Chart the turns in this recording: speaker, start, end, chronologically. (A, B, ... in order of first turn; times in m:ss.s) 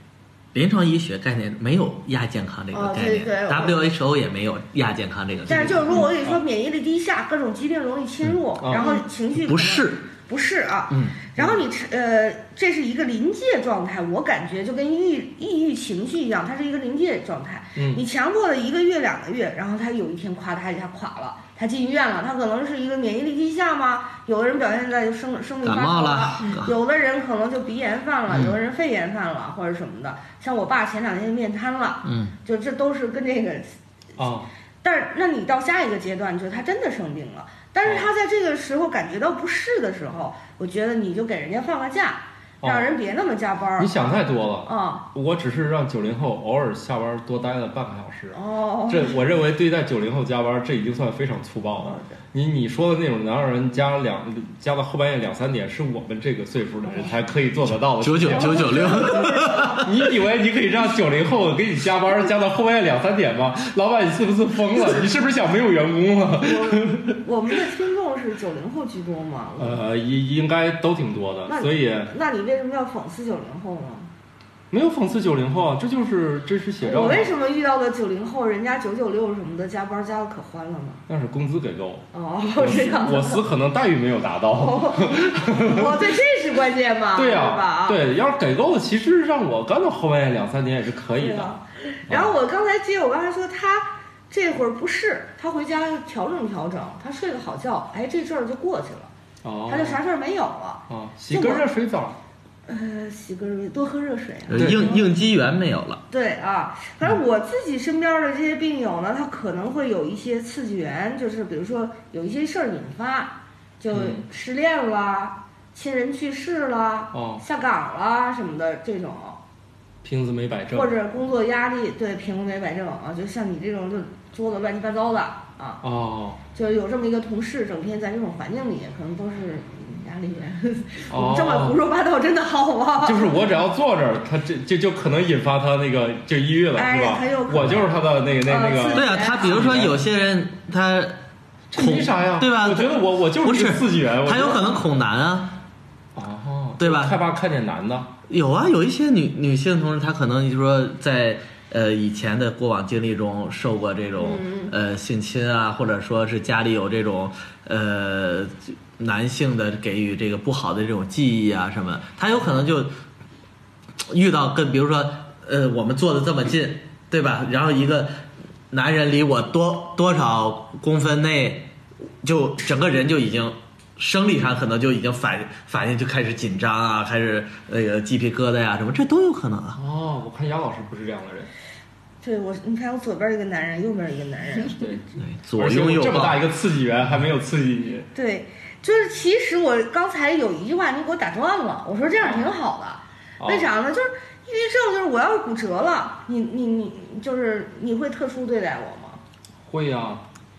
0:00.5-0:06.1 A
0:02.7-0:03.8 B
0:05.5-0:33.7 B
0:05.9-0:06.4 C
0:08.6-0:08.9 C
0:08.8-0:10.0 A
0:10.9-0:11.2 A
0:17.8-0:18.0 C
0:25.6-0:26.7 A
0:28.3-0:28.6 A
0:32.0-0:32.3 A
0:34.2-0:34.5 C
0:34.8-0:43.9 B
0:42.6-0:42.9 C
0:43.8-1:07.2 C
0:44.6-0:45.0 B
0:48.3-0:49.2 B
0:51.8-0:52.1 B
0:58.0-1:00.0 A
0:58.3-0:59.8 B
1:06.4-1:09.8 B
1:09.6-1:12.1 C
1:11.5-1:14.1 B
1:14.7-1:17.3 C
1:16.8-1:21.0 B
1:21.1-1:26.0 C
1:22.1-1:23.4 B
1:24.6-1:28.0 B
1:27.1-1:31.5 C
1:31.2-1:39.1 B
1:32.1-1:32.4 C
1:39.4-1:40.0 C
1:39.7-1:41.7 B
1:40.9-1:42.2 C
1:42.7-1:45.1 B
1:44.5-1:46.0 A
1:44.5-1:44.9 C
1:46.1-1:59.4 B
1:53.9-1:54.2 C
1:57.1-1:57.4 C
2:00.0-2:00.9 C
2:00.7-2:05.8 B
2:05.8-2:06.4 C
2:06.5-2:13.4 B
2:11.1-2:11.8 C
2:13.0-2:20.0 C
2:16.8-2:19.7 B
2:18.9-2:21.2 A
2:21.7-2:24.8 C
2:21.7-2:25.6 A
2:26.1-2:28.1 C
2:26.8-2:27.2 A
2:28.3-2:42.9 A
2:34.2-2:34.7 B
2:44.0-2:51.7 A
2:52.2-2:59.8 A
2:59.8-3:01.5 C
3:02.2-3:04.9 B
3:05.2-3:06.4 A
3:05.6-3:08.1 C
3:08.1-3:19.2 B
3:12.2-3:12.5 C
3:13.4-3:13.7 C
3:19.6-3:20.2 C